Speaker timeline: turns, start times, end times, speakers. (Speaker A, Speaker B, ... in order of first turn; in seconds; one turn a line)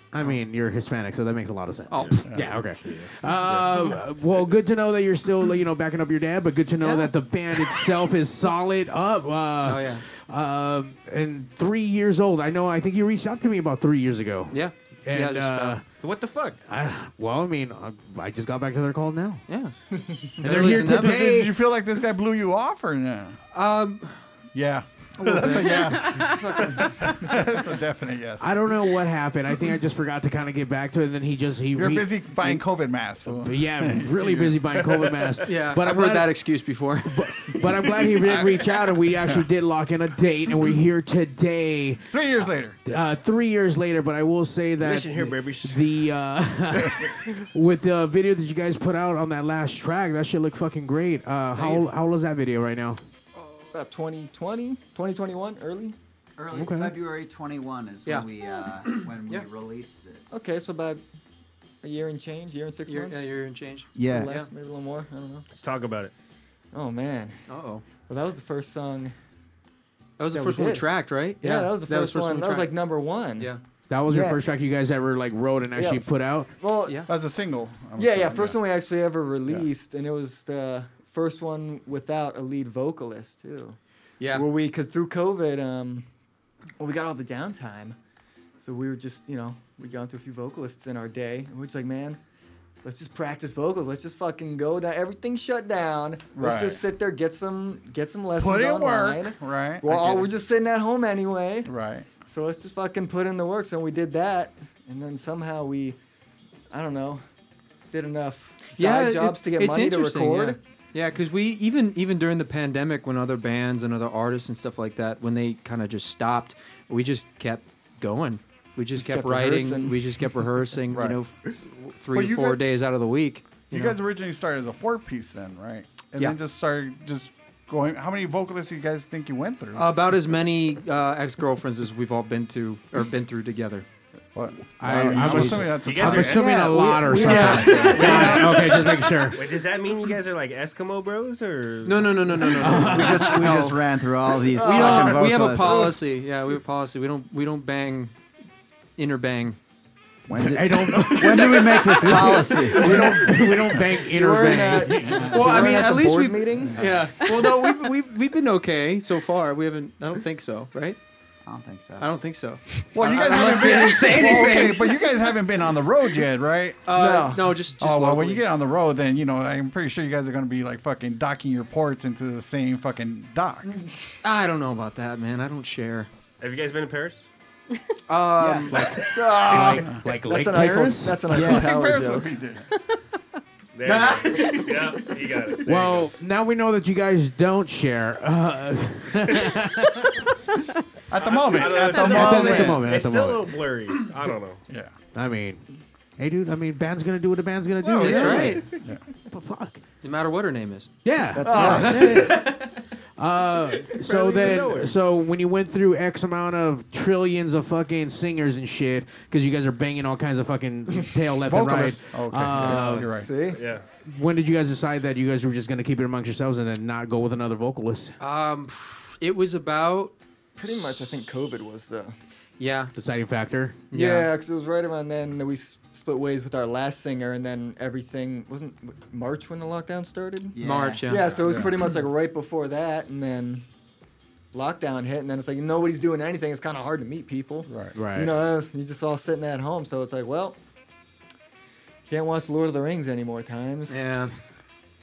Speaker A: 0.1-15.8
Speaker B: 1.9-2.3
Speaker C: 2.2-2.5
Speaker D: 2.8-4.0
Speaker B: 6.8-7.1
Speaker B: 9.7-10.1
Speaker B: 14.5-15.8
Speaker D: 16.0-16.6
Speaker A: 16.7-19.5
Speaker B: 19.5-19.7
Speaker B: 20.4-21.2
Speaker A: 20.4-21.6
Speaker C: 20.8-23.4
Speaker B: 23.5-24.2
Speaker C: 24.5-28.7
Speaker B: 25.3-26.0
Speaker A: 25.8-26.2
Speaker E: 26.2-27.2
Speaker A: 28.4-32.6
Speaker C: 31.7-35.5
Speaker A: 33.3-36.3
Speaker B: 35.5-37.2
Speaker A: 37.1-42.1
Speaker C: 38.3-38.5
Speaker C: 42.1-42.8
Speaker A: 42.9-53.0
Speaker D: 44.8-45.8
Speaker B: 51.5-51.8
Speaker E: 53.7-56.0
Speaker F: 56.4-60.2
Speaker A: 56.5-56.9
Speaker B: 58.9-59.5
Speaker E: 60.3-61.0
Speaker E: 61.8-63.3
Speaker B: 62.9-64.5
Speaker F: 64.0-64.3
Speaker E: 64.0-65.5
Speaker D: 65.5-66.1
Speaker E: 66.7-67.4
Speaker B: 67.5-67.8
Speaker E: 68.0-69.1
Speaker B: 70.2-72.7
Speaker E: 70.3-70.9
Speaker E: 71.4-73.5
Speaker A: 73.9-76.5
Speaker F: 74.1-74.4
Speaker E: 75.8-77.0
Speaker C: 77.1-78.6
Speaker E: 78.0-83.8
Speaker B: 84.2-84.5
Speaker E: 84.3-86.1
Speaker E: 86.8-88.0
Speaker E: 88.6-92.2
Speaker E: 92.8-101.7
Speaker C: 96.3-96.8
Speaker C: 98.4-100.3
Speaker C: 101.7-102.1
Speaker E: 102.3-106.0
Speaker E: 106.7-107.2
Speaker E: 107.9-110.6
Speaker B: 108.8-124.0
Speaker E: 119.0-120.1
Speaker C: 120.9-121.2
Speaker C: 122.1-122.6
Speaker C: 123.7-130.2
Speaker B: 129.8-133.9
Speaker C: 134.3-138.4
Speaker A: 134.8-139.4
Speaker F: 134.8-138.5
Speaker D: 135.8-136.4
Speaker B: 137.1-138.4
Speaker D: 137.8-142.6
Speaker B: 141.8-143.8
Speaker A: 142.6-143.5
Speaker F: 142.7-145.9
Speaker E: 144.5-145.9
Speaker B: 144.6-148.1
Speaker A: 144.7-145.2
Speaker B: 149.0-149.6
Speaker F: 150.3-153.2
Speaker A: 150.4-155.4
Speaker B: 150.9-152.1
Speaker C: 152.8-153.8
Speaker E: 154.1-156.9
Speaker B: 155.3-161.0
Speaker C: 156.8-157.0
Speaker F: 161.5-162.1
Speaker B: 162.0-165.1
Speaker C: 162.9-166.8
Speaker B: 166.9-168.5
Speaker E: 166.9-167.5
Speaker C: 167.8-173.7
Speaker B: 174.2-176.1
Speaker D: 176.4-177.2
Speaker B: 178.1-178.8
Speaker F: 178.4-178.7
Speaker A: 178.7-181.2
Speaker E: 179.1-182.3
Speaker F: 181.3-181.7
Speaker C: 181.3-182.7
Speaker D: 183.8-186.1
Speaker B: 183.9-184.2
Speaker A: 185.7-190.2
Speaker C: 191.1-192.8
Speaker D: 191.2-194.6
Speaker A: 191.9-193.5
Speaker A: 195.1-195.6
Speaker A: 196.2-198.7
Speaker B: 197.9-198.7
Speaker C: 198.0-199.0
Speaker A: 199.3-199.8
Speaker B: 200.0-200.9
Speaker A: 201.0-202.6
Speaker F: 201.4-202.2
Speaker E: 201.4-202.3
Speaker C: 201.6-201.9
Speaker B: 201.7-202.6
Speaker A: 203.2-213.1
Speaker D: 203.9-204.9
Speaker C: 211.5-213.3
Speaker E: 212.7-213.6
Speaker D: 213.6-213.8
Speaker A: 214.1-218.2
Speaker B: 218.2-220.2
Speaker E: 220.6-222.1
Speaker B: 222.6-222.9
Speaker A: 222.9-223.8
Speaker B: 223.9-224.3
Speaker E: 223.9-233.7
Speaker F: 230.6-231.3
Speaker B: 230.6-231.5
Speaker C: 231.4-231.8
Speaker E: 234.5-240.6
Speaker C: 237.7-237.9
Speaker A: 237.9-238.3
Speaker E: 242.1-244.0
Speaker B: 243.9-244.3